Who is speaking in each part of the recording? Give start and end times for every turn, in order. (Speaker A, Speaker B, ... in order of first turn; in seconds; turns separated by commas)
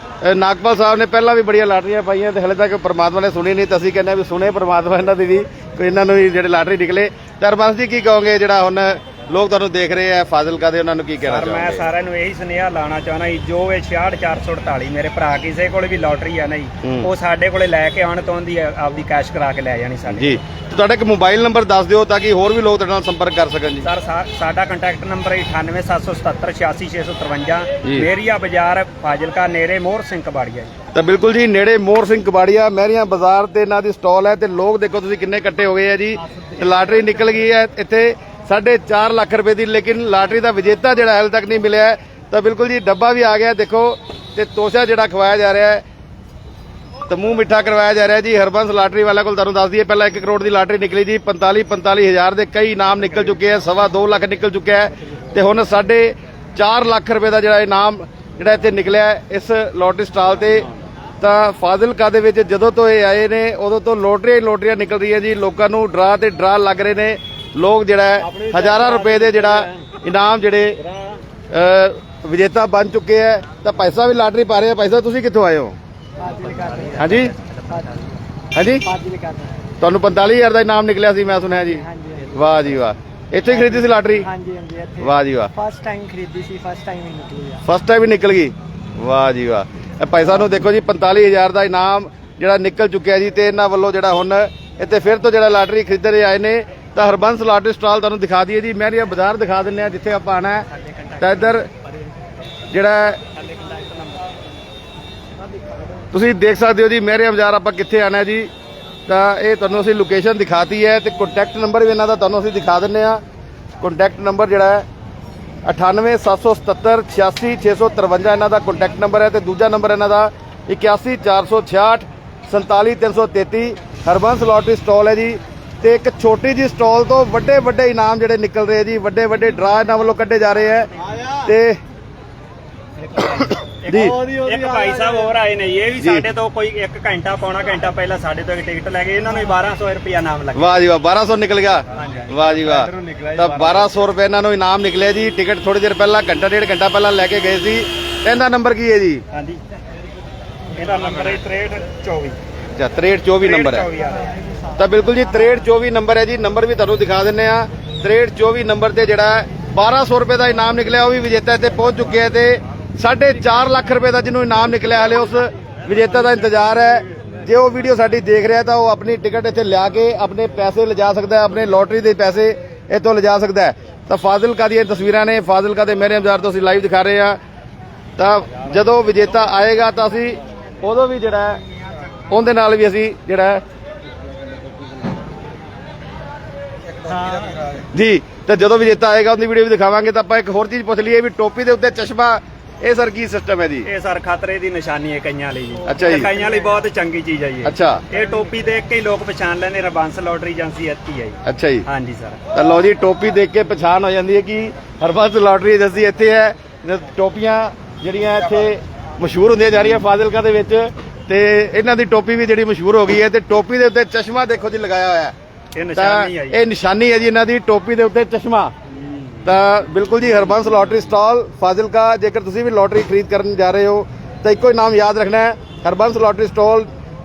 Speaker A: 0.2-11.9, Speaker B: 11.2-20.4, Speaker A: 16.8-17.1, Speaker A: 20.1-23.9, Speaker B: 23.8-30.7, Speaker A: 30.9-45.8, Speaker A: 47.1-60.7, Speaker A: 61.2-70.8, Speaker A: 71.5-75.8, Speaker C: 76.2-77.1, Speaker A: 77.0-77.3, Speaker B: 77.0-77.5, Speaker A: 78.5-78.8, Speaker C: 78.8-79.6, Speaker A: 79.8-84.3, Speaker C: 81.7-82.4, Speaker C: 83.7-87.6, Speaker A: 85.0-85.5, Speaker A: 87.6-100.7, Speaker B: 100.8-101.6, Speaker A: 101.2-101.7, Speaker A: 102.7-103.2, Speaker B: 103.3-104.3, Speaker A: 106.1-108.5, Speaker A: 109.1-113.2, Speaker A: 113.8-114.8, Speaker A: 115.6-131.8, Speaker B: 133.1-140.7, Speaker A: 133.2-134.3, Speaker A: 136.0-136.3, Speaker A: 140.6-149.2, Speaker B: 141.9-142.5, Speaker B: 149.3-149.6, Speaker B: 150.8-152.4, Speaker A: 152.8-153.9, Speaker B: 153.4-154.3, Speaker A: 154.8-177.4, Speaker A: 178.2-181.6, Speaker A: 182.3-183.6, Speaker A: 187.9-193.9, Speaker B: 193.8-202.4, Speaker A: 195.9-196.3, Speaker A: 197.6-198.0, Speaker A: 201.5-201.9, Speaker A: 202.5-215.3, Speaker B: 215.7-216.6, Speaker A: 216.0-218.7, Speaker A: 219.4-226.9